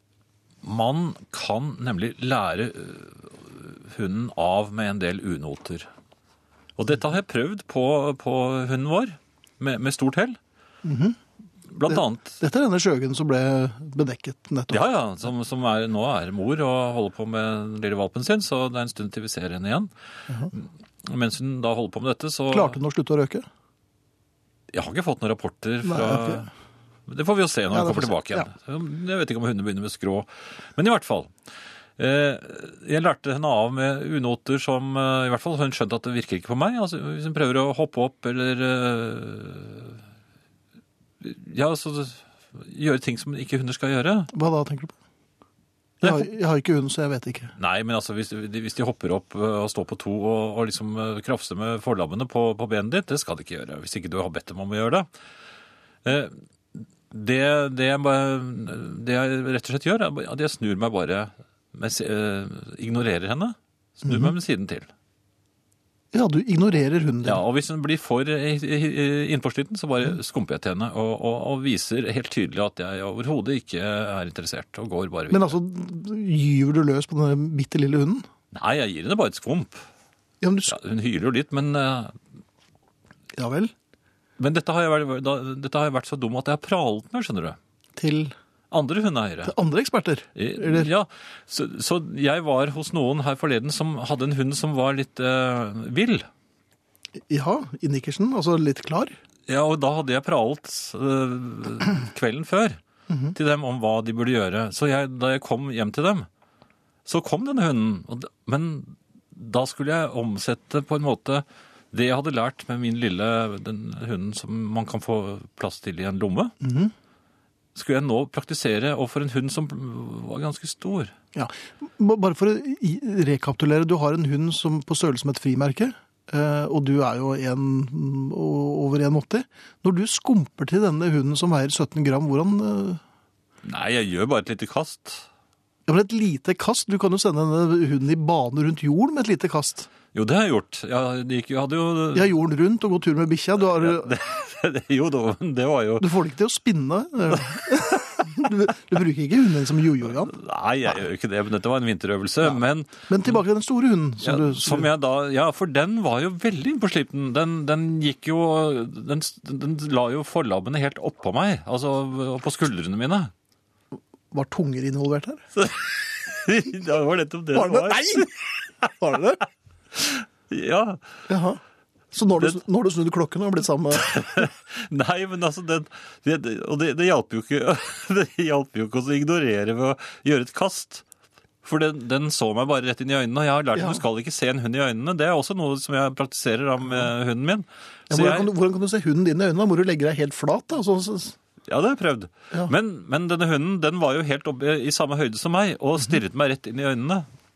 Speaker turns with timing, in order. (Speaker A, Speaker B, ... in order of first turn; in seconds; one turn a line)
Speaker A: 0.6-5.9
Speaker A: 6.8-10.4
Speaker B: 10.8-11.2
Speaker A: 11.7-12.4
Speaker B: 11.9-14.9
Speaker A: 14.7-19.9
Speaker A: 20.5-22.8
Speaker B: 22.5-23.4
Speaker A: 24.7-26.5
Speaker B: 25.8-26.5
Speaker A: 27.1-31.3
Speaker B: 27.7-28.5
Speaker A: 32.0-40.0
Speaker A: 41.2-44.3
Speaker B: 44.3-44.9
Speaker A: 46.0-46.3
Speaker B: 46.0-47.5
Speaker A: 47.6-55.1
Speaker A: 56.0-64.9
Speaker B: 64.1-64.3
Speaker B: 66.1-67.4
Speaker A: 67.2-75.5
Speaker B: 75.3-78.3
Speaker A: 78.5-79.8
Speaker B: 80.4-80.8
Speaker A: 80.7-82.2
Speaker B: 83.3-83.7
Speaker A: 84.4-87.6
Speaker B: 88.0-88.3
Speaker A: 88.7-89.5
Speaker B: 89.4-90.9
Speaker A: 90.3-96.3
Speaker B: 97.2-99.1
Speaker A: 99.5-102.8
Speaker B: 103.1-103.4
Speaker A: 103.3-106.3
Speaker A: 107.1-116.5
Speaker B: 116.6-116.9
Speaker A: 117.8-121.1
Speaker B: 121.3-133.0
Speaker A: 133.6-135.3
Speaker B: 135.9-139.9
Speaker A: 140.1-142.3
Speaker B: 142.1-144.1
Speaker A: 143.7-146.1
Speaker B: 146.0-150.3
Speaker A: 147.8-148.3
Speaker A: 150.2-153.4
Speaker B: 153.1-154.9
Speaker A: 154.2-163.3
Speaker B: 164.3-165.4
Speaker A: 165.6-168.9
Speaker B: 167.5-168.3
Speaker B: 168.9-169.4
Speaker A: 169.9-171.0
Speaker B: 171.3-171.6
Speaker B: 172.1-174.1
Speaker A: 173.9-181.0
Speaker A: 181.6-188.5
Speaker B: 183.8-184.0
Speaker B: 188.1-191.4
Speaker A: 191.7-197.3